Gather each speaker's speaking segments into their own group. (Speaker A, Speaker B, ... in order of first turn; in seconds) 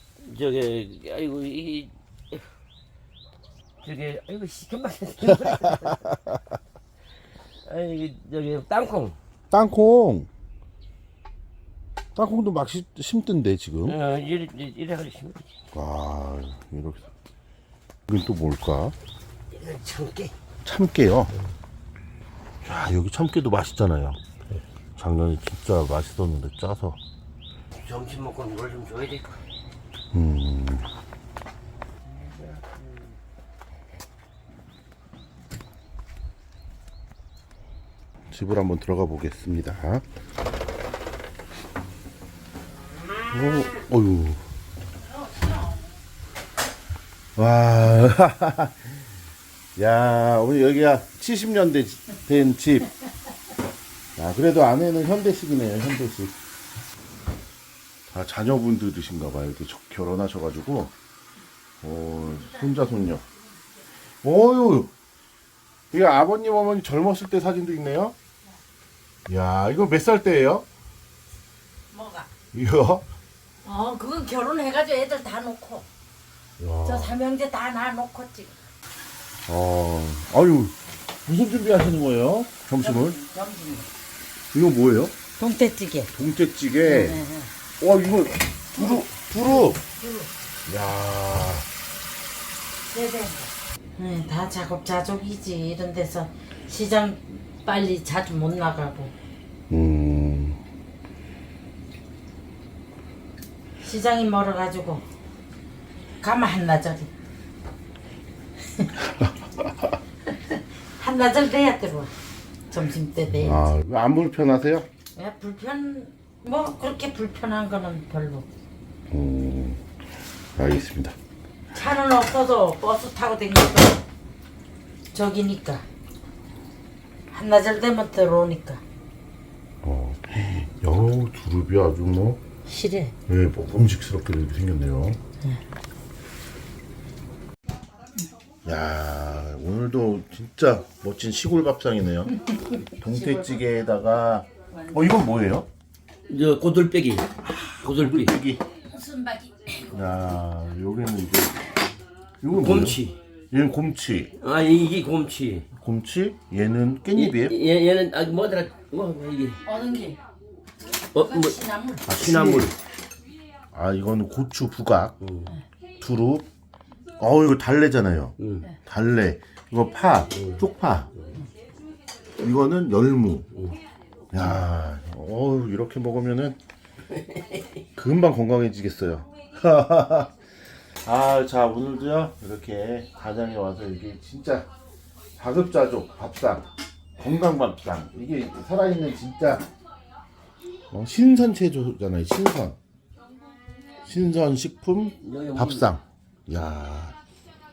Speaker A: 0.2-2.4, 3.8-6.2, 7.7-9.2, 13.9-15.5, 19.5-20.3, 27.8-29.4, 32.1-33.0, 146.3-147.3, 147.8-148.4, 152.6-153.2, 154.4-155.7, 157.2-159.6, 161.1-162.8, 165.2-165.5, 168.4-168.7, 170.3-170.6, 177.1-177.6, 195.2-195.9
Speaker B: 5.5-6.3, 9.5-10.3, 12.2-14.0, 15.7-17.1, 18.1-18.9, 20.6-21.3, 22.6-24.2, 25.0-27.0, 30.1-30.9, 38.3-40.0, 43.3-44.4, 47.4-49.0, 49.8-52.9, 54.2-56.4, 58.1-60.9, 61.8-63.2, 64.2-64.9, 65.9-68.2, 69.3-70.7, 72.5-73.0, 76.6-77.2, 79.5-83.2, 84.5-85.1, 86.2-87.2, 87.8-89.8, 90.7-91.7, 99.7-100.6, 113.4-114.9, 119.1-119.8, 120.6-121.2, 129.8-132.4, 133.3-135.2, 138.7-142.4, 142.9-145.7, 147.5-148.6, 149.9-151.6, 152.4-154.3, 155.8-157.6, 162.1-162.7, 163.7-165.2, 166.0-166.5, 167.2-171.1, 172.4-173.5, 174.3-176.6, 178.0-180.3, 181.0-184.7, 185.4-189.7, 190.9-192.8, 194.0-197.2
Speaker C: 71.9-72.3, 73.6-75.9, 76.8-78.6, 82.8-83.9, 85.4-86.1, 86.8-87.5, 88.8-90.3, 92.9-99.1, 103.8-105.0, 106.2-107.1, 110.3-112.1, 112.7-113.7, 115.2-118.5, 121.7-124.0, 125.1-125.8, 127.3-128.8, 132.7-133.1, 142.5-143.6, 148.9-149.9, 159.7-160.2, 161.1-162.0